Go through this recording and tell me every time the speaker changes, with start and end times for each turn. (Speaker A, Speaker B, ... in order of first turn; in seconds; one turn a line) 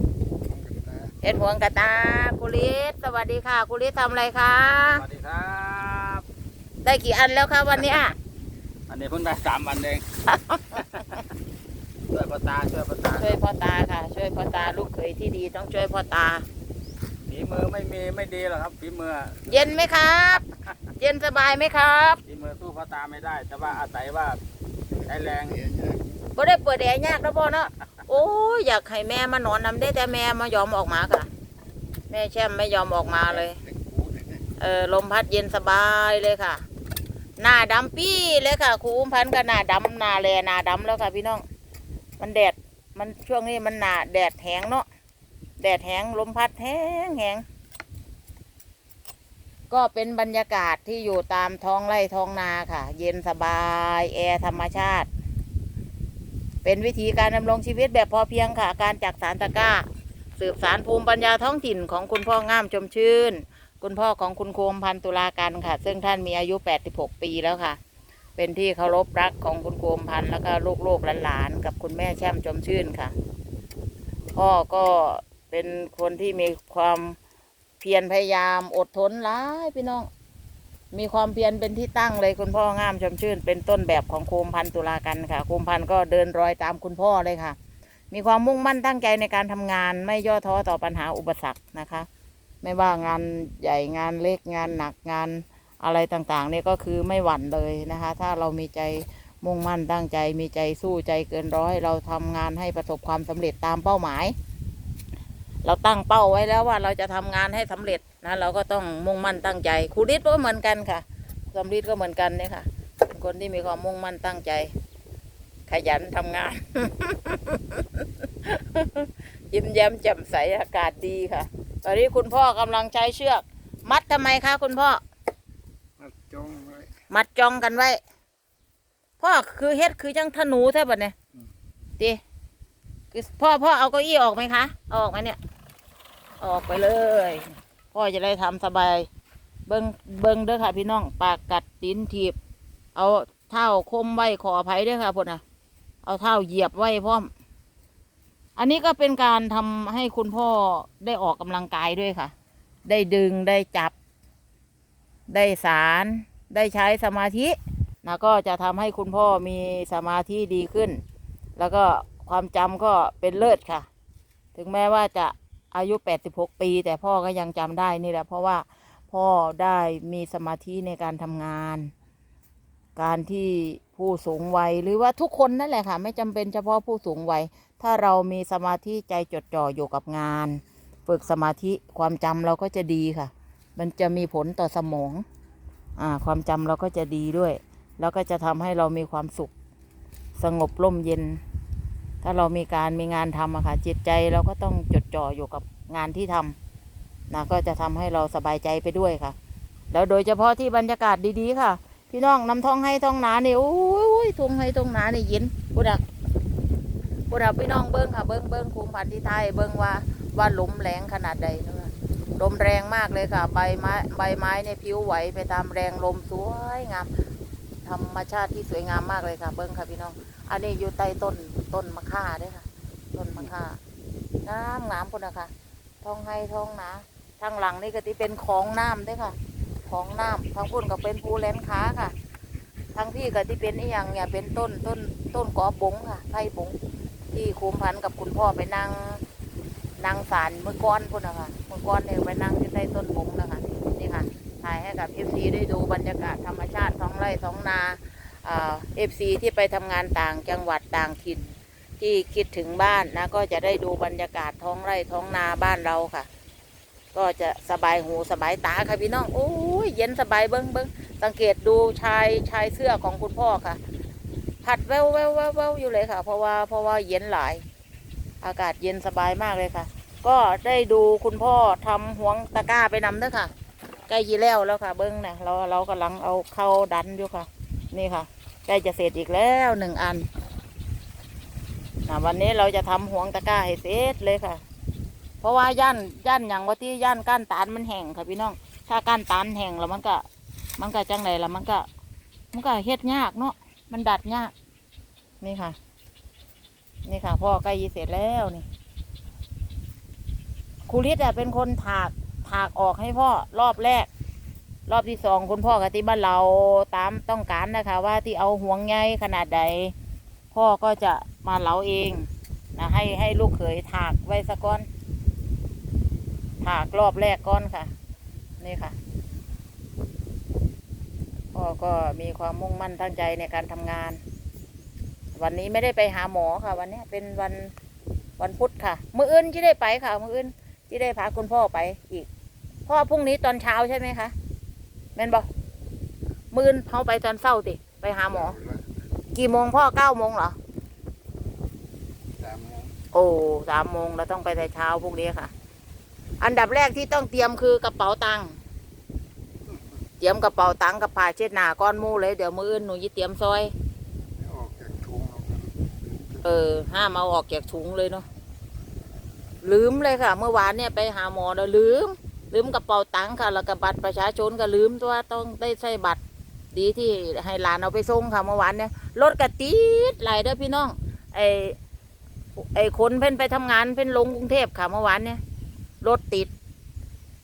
Speaker A: 0.4-1.1
Speaker B: 1.2-5.0
Speaker C: 5.0-6.2
Speaker B: 6.8-8.2
Speaker C: 8.9-10.1
Speaker B: 10.3-11.2
Speaker C: 12.1-13.4
Speaker B: 13.2-16.4
Speaker C: 17.2-19.5
Speaker B: 19.5-20.4
Speaker B: 21.0-22.2
Speaker C: 22.3-24.4
Speaker C: 25.0-25.6
Speaker A: 25.5-26.1
Speaker B: 26.4-31.3
Speaker B: 32.1-33.6
Speaker A: 33.6-34.4
Speaker B: 34.6-36.6
Speaker B: 37.4-41.5
Speaker B: 42.2-44.9
Speaker B: 45.6-47.4
Speaker B: 49.7-55.1
Speaker B: 56.6-59.8
Speaker B: 60.4-67.8
Speaker B: 68.4-73.1
Speaker B: 74.3-77.2
Speaker B: 77.8-80.1
Speaker B: 80.9-87.6
Speaker B: 88.1-92.1
Speaker B: 92.6-104.3
Speaker B: 105.6-114.7
Speaker B: 115.7-125.0
Speaker A: 126.0-126.9
Speaker B: 127.1-128.0
Speaker B: 129.2-131.2
Speaker B: 133.1-135.4
Speaker B: 136.4-139.1
Speaker B: 139.7-142.4
Speaker B: 142.9-145.4
Speaker B: 146.0-147.3
Speaker B: 148.6-152.3
Speaker B: 152.9-153.9
Speaker B: 155.3-161.0
Speaker B: 161.6-163.9
Speaker B: 164.6-171.9
Speaker B: 173.0-185.2
Speaker B: 186.0-189.5
Speaker B: 190.4-191.4
Speaker B: 192.2-196.6
Speaker B: 197.3-199.3
Speaker B: 199.9-206.0
Speaker B: 207.3-217.1
Speaker B: 217.8-223.8
Speaker B: 224.4-225.5
Speaker B: 226.0-229.4
Speaker B: 229.9-232.1
Speaker B: 232.9-236.8
Speaker B: 237.3-239.2
Speaker B: 240.0-256.3
Speaker B: 257.1-263.8
Speaker B: 264.6-267.6
Speaker B: 268.4-273.5
Speaker B: 274.1-280.3
Speaker B: 282.1-284.6
Speaker B: 285.4-290.2
Speaker B: 290.8-291.9
Speaker B: 292.5-294.5
Speaker B: 295.4-295.8
Speaker B: 297.1-298.7
Speaker B: 300.9-304.1
Speaker B: 304.9-309.9
Speaker B: 310.5-314.9
Speaker B: 316.6-317.9
Speaker B: 318.6-318.9
Speaker B: 321.5-324.2
Speaker B: 325.4-327.7
Speaker B: 328.4-332.3
Speaker B: 332.9-334.3
Speaker B: 335.2-335.5
Speaker B: 336.5-338.6
Speaker A: 338.5-338.8
Speaker B: 339.4-340.6
Speaker A: 342.4-342.9
Speaker B: 343.1-345.5
Speaker B: 346.4-348.6
Speaker B: 350.2-353.7
Speaker A: 354.4-356.4
Speaker B: 356.4-358.2
Speaker B: 359.6-366.2
Speaker B: 366.7-371.8
Speaker B: 372.6-375.4
Speaker B: 376.0-376.5